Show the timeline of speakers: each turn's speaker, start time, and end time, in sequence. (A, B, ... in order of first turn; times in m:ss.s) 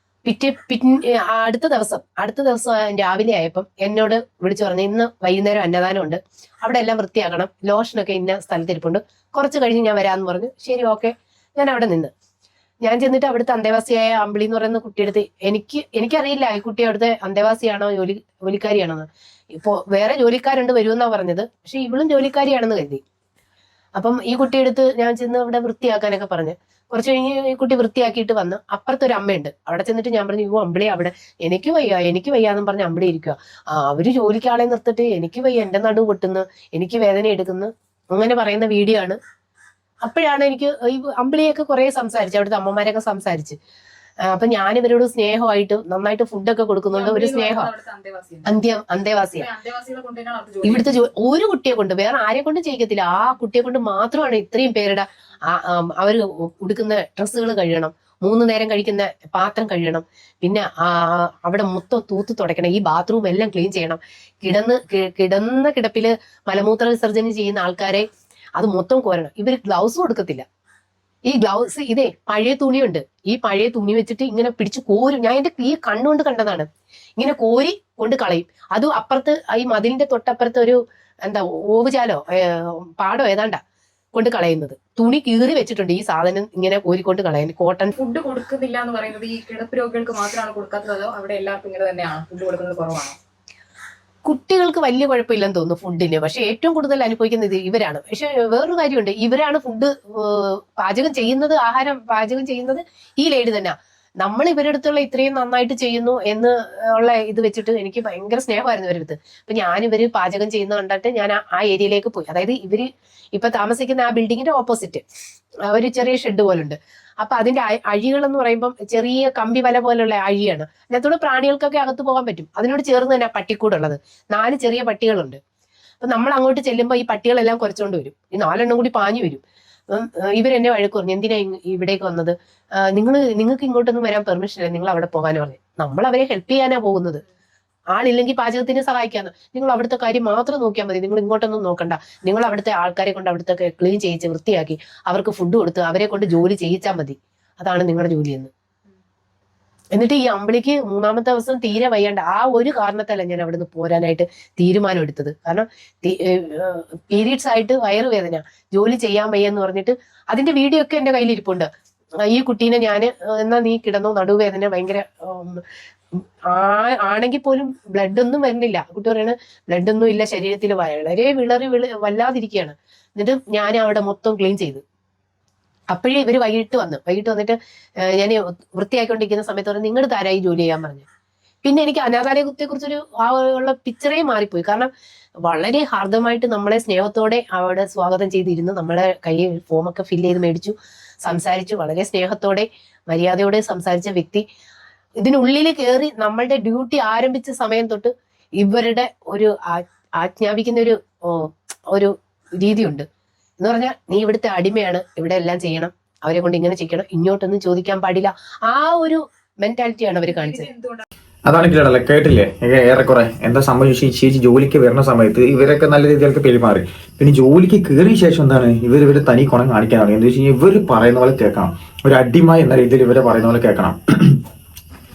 0:00.2-0:12.1 A
0:12.8-0:23.0 A
0:24.0-0:39.2 A
0:40.0-0:43.6 A
0:44.3-0:47.7 A
0:46.9-0:48.6 B
0:48.4-0:49.5 A
0:49.4-0:51.0 B
0:50.6-1:08.1 A
1:08.6-1:10.4 A
1:11.3-1:16.7 A
1:17.2-1:23.6 A
1:24.1-1:27.9 A
1:27.9-1:33.2 B
1:34.2-1:55.0 A
1:55.7-2:05.4 A
2:06.0-2:17.2 A
2:17.9-2:28.5 A
2:29.9-2:41.7 A
2:42.3-2:45.6 A
2:46.2-2:54.8 A
2:55.9-3:01.1 A
3:01.6-3:04.9 A
3:05.5-3:14.4 A
3:15.2-3:23.1 A
3:23.6-3:30.7 A
3:30.3-3:31.0 B
3:31.5-3:44.4 C